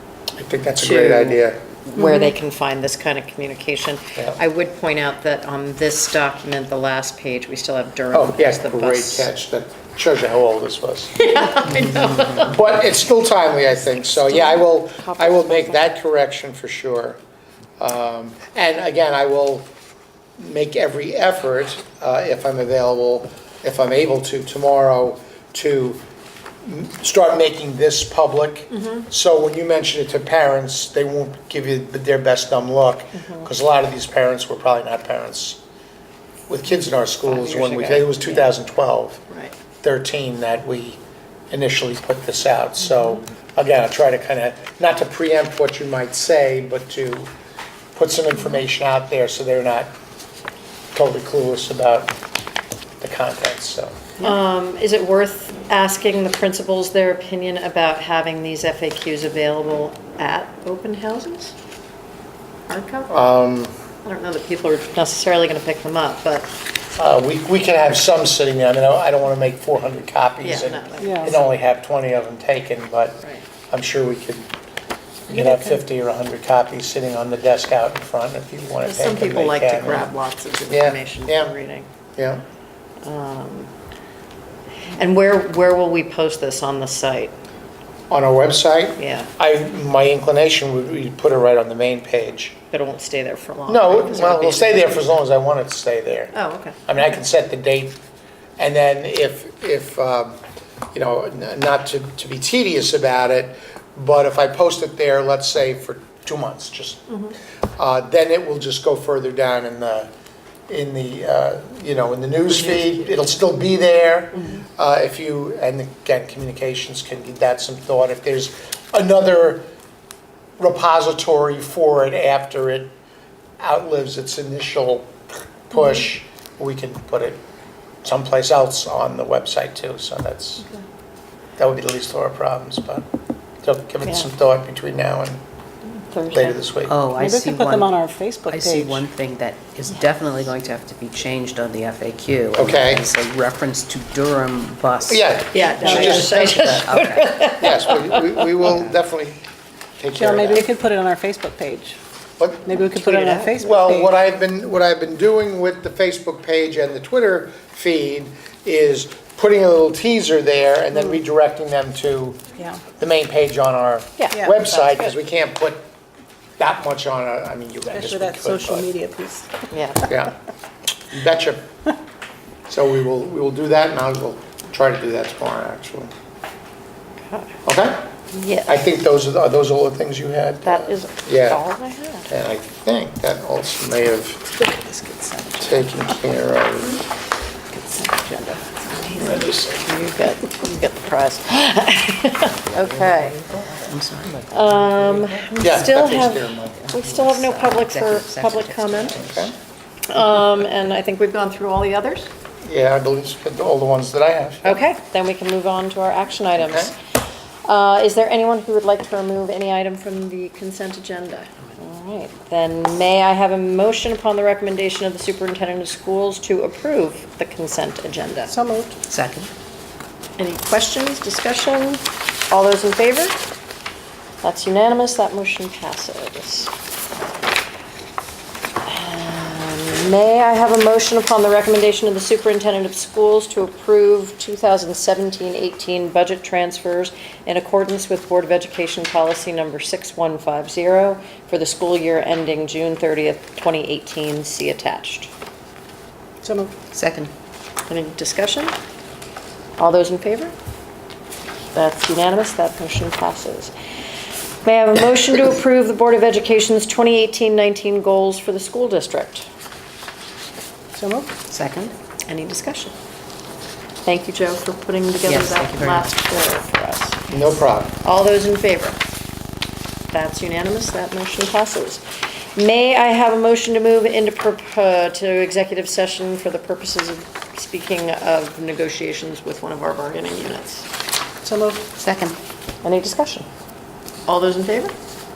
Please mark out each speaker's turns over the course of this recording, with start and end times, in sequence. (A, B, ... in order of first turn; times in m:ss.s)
0:00.4-0:01.6 A
0:00.8-0:09.3 B
0:02.0-0:02.3 C
0:08.1-0:17.2 A
0:11.2-0:12.6 B
0:14.2-0:15.9 B
0:17.8-0:19.7 A
0:20.4-0:26.0 A
0:26.6-0:35.6 A
0:28.7-0:29.1 B
0:33.2-0:33.5 B
0:36.5-0:39.2 A
0:37.2-0:38.5 B
0:39.8-0:41.0 A
0:41.5-0:47.3 A
0:47.9-0:49.9 A
0:50.9-0:52.1 A
0:53.0-0:54.0 A
0:54.2-1:01.5 B
1:02.7-1:03.2 B
1:03.1-1:03.7 A
1:04.0-1:06.5 B
1:07.0-1:14.5 A
1:10.4-1:11.6 B
1:11.0-1:11.3 C
1:15.3-1:20.1 A
1:15.3-1:15.8 C
1:18.8-1:21.9 B
1:20.7-1:21.5 A
1:22.2-1:22.4 A
1:23.0-1:23.7 B
1:24.9-1:27.3 B
1:28.1-1:32.6 A
1:29.0-1:29.3 B
1:32.7-1:35.1 B
1:33.7-1:36.3 A
1:36.3-1:37.2 B
1:36.8-1:38.0 A
1:38.6-1:40.4 A
1:40.9-1:47.2 A
1:47.8-1:50.1 A
1:50.7-1:59.6 A
1:52.7-1:53.2 B
2:00.6-2:02.9 A
2:03.6-2:07.4 A
2:08.0-2:10.7 A
2:11.6-2:13.1 A
2:13.6-2:15.4 A
2:14.0-2:14.3 B
2:16.0-2:16.6 B
2:16.3-2:17.0 A
2:16.9-2:27.4 D
2:17.1-2:19.0 C
2:22.5-2:23.0 A
2:25.1-2:26.7 A
2:25.5-2:28.6 B
2:25.8-2:26.2 C
2:27.5-2:29.4 A
2:28.6-2:29.0 D
2:30.0-2:30.7 A
2:30.1-2:32.0 C
2:32.4-2:32.7 A
2:32.6-2:34.1 C
2:33.0-2:33.5 B
2:33.6-2:42.4 A
2:42.6-2:42.8 C
2:43.0-2:45.9 A
2:44.2-2:45.2 B
2:46.6-2:48.9 A
2:47.9-2:49.7 C
2:49.7-2:50.1 B
2:50.1-2:50.3 A
2:51.1-2:51.6 A
2:52.7-2:56.1 A
2:57.3-2:57.6 B
2:57.6-2:58.0 A
2:58.3-2:58.8 B
2:58.7-3:01.6 A
3:00.6-3:02.3 B
3:02.3-3:04.5 A
3:04.6-3:05.8 C
3:05.6-3:07.0 A
3:07.7-3:13.4 B
3:09.2-3:09.8 A
3:12.6-3:19.5 D
3:14.5-3:19.2 B
3:15.6-3:16.8 A
3:19.1-3:19.5 A
3:20.1-3:22.3 B
3:22.6-3:24.8 A
3:24.6-3:27.1 B
3:26.6-3:26.9 A
3:27.6-3:38.5 B
3:38.5-3:39.0 C
3:39.1-3:39.5 D
3:40.4-3:43.4 B
3:44.4-3:46.7 B
3:48.8-4:05.3 B
4:06.4-4:06.7 C
4:06.9-4:07.3 D
4:07.9-4:08.7 B
4:09.8-4:10.5 B
4:11.7-4:13.7 B
4:14.6-4:19.5 B
4:20.9-4:21.3 C
4:21.5-4:21.9 D
4:22.3-4:22.9 B
4:24.0-4:27.3 B
4:25.2-4:26.1 D
4:27.3-4:28.0 A
4:28.0-4:29.0 B
4:30.1-4:32.0 B
4:32.6-4:40.9 B
4:41.4-4:41.8 C
4:42.0-4:42.4 D
4:42.8-4:43.5 B
4:44.2-4:44.9 B